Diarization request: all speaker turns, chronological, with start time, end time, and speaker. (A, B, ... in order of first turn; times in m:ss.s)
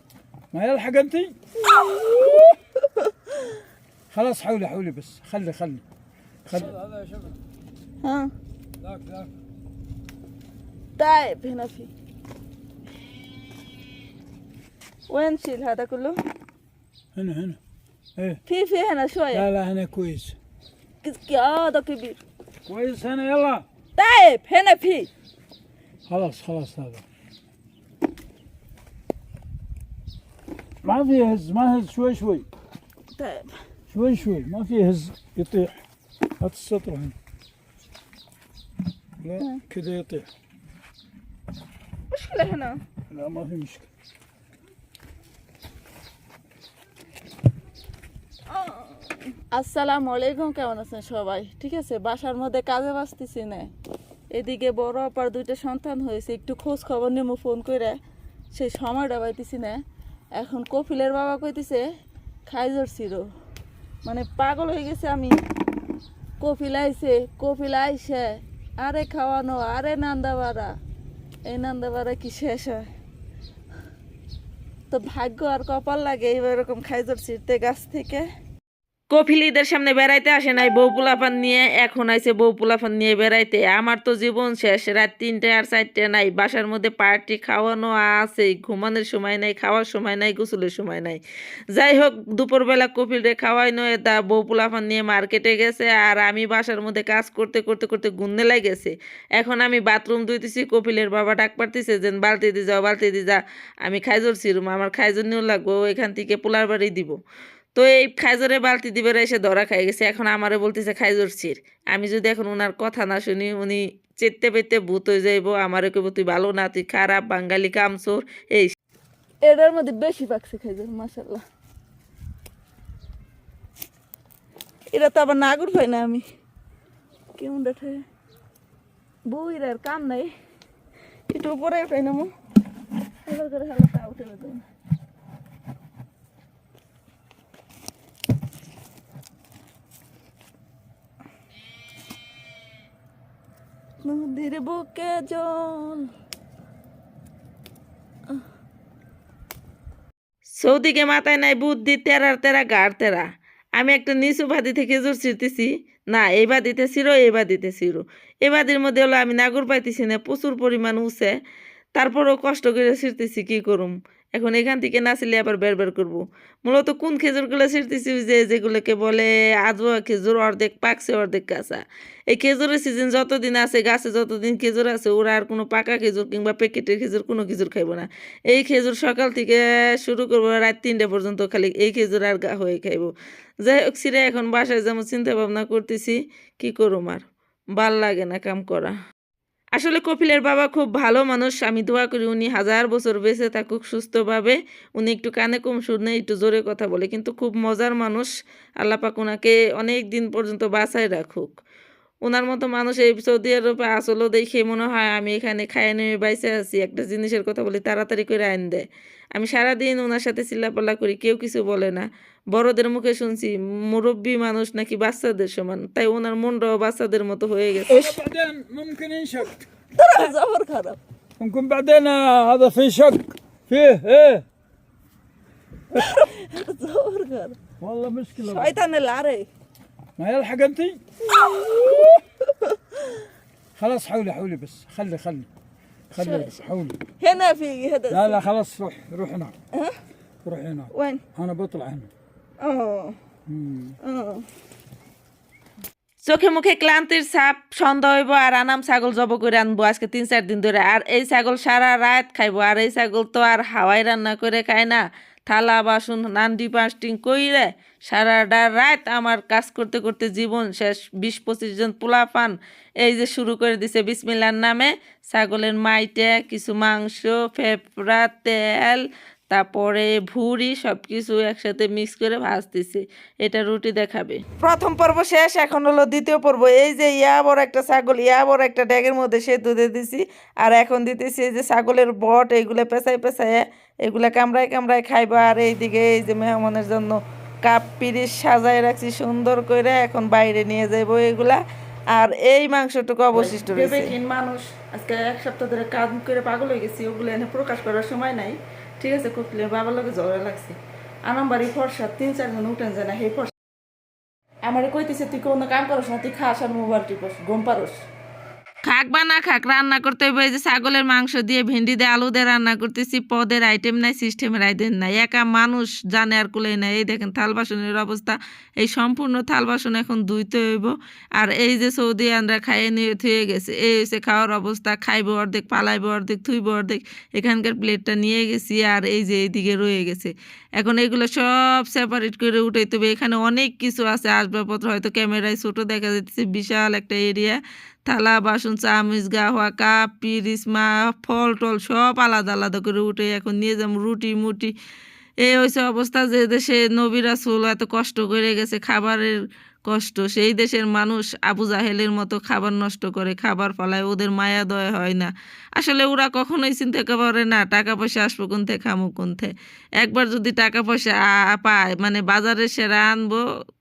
0:00.5-0:01.4 A
0:01.7-0:03.0 B
0:04.1-0:05.8 A
0:06.4-0:07.3 A
0:08.0-0:08.3 B
0:08.8-0:09.3 A
0:11.0-0:11.9 B
0:15.1-0:16.2 B
0:17.1-0:17.6 A
0:18.5-0:19.4 B
0:19.3-0:20.4 A
0:21.0-0:22.2 B
0:22.6-0:23.6 A
0:24.0-0:25.1 B
0:26.1-0:27.0 A
0:30.8-0:32.5 A
0:33.2-0:33.5 B
0:33.9-0:35.8 A
0:36.4-0:37.1 A
0:39.2-0:40.3 A
0:42.1-0:42.8 B
0:43.1-0:43.9 A
0:48.5-0:53.7 B
0:54.3-0:58.0 B
0:58.5-0:59.8 B
1:00.4-1:01.8 B
1:02.5-1:03.3 B
1:04.0-1:05.3 B
1:06.4-1:10.7 B
1:11.4-1:12.9 B
1:14.9-1:18.3 B
1:19.1-1:31.2 C
1:31.7-1:47.2 C
1:47.8-1:58.7 C
1:59.4-2:01.4 B
2:04.9-2:06.2 B
2:07.4-2:08.0 B
2:09.3-2:10.3 B
2:11.3-2:12.3 B
2:13.2-2:14.6 B
2:24.0-2:26.1 B
2:30.5-2:33.2 C
2:33.8-2:41.3 C
2:42.0-3:03.1 C
3:03.6-3:07.2 C
3:07.8-3:08.9 C
3:09.8-3:18.3 C
3:18.8-3:21.5 C
3:22.2-3:38.2 C
3:37.9-3:39.6 A
3:40.0-3:41.0 B
3:41.4-3:44.4 A
3:45.9-3:47.6 B
3:47.8-3:48.8 A
3:48.4-3:49.5 B
3:50.2-3:51.0 A
3:51.3-3:52.8 B
3:53.8-3:55.5 A
3:56.1-3:57.0 A
3:56.2-3:56.5 B
3:57.2-3:58.4 B
3:58.1-3:59.5 A
4:00.4-4:02.1 A
4:00.9-4:01.2 B
4:02.6-4:03.2 B
4:03.5-4:04.0 A
4:04.0-4:04.4 B
4:06.2-4:54.2 C
4:53.3-5:00.7 B
5:01.2-5:03.5 B
5:04.6-5:08.0 B
5:08.8-5:44.7 C
5:45.4-5:49.3 C
5:49.9-6:03.4 C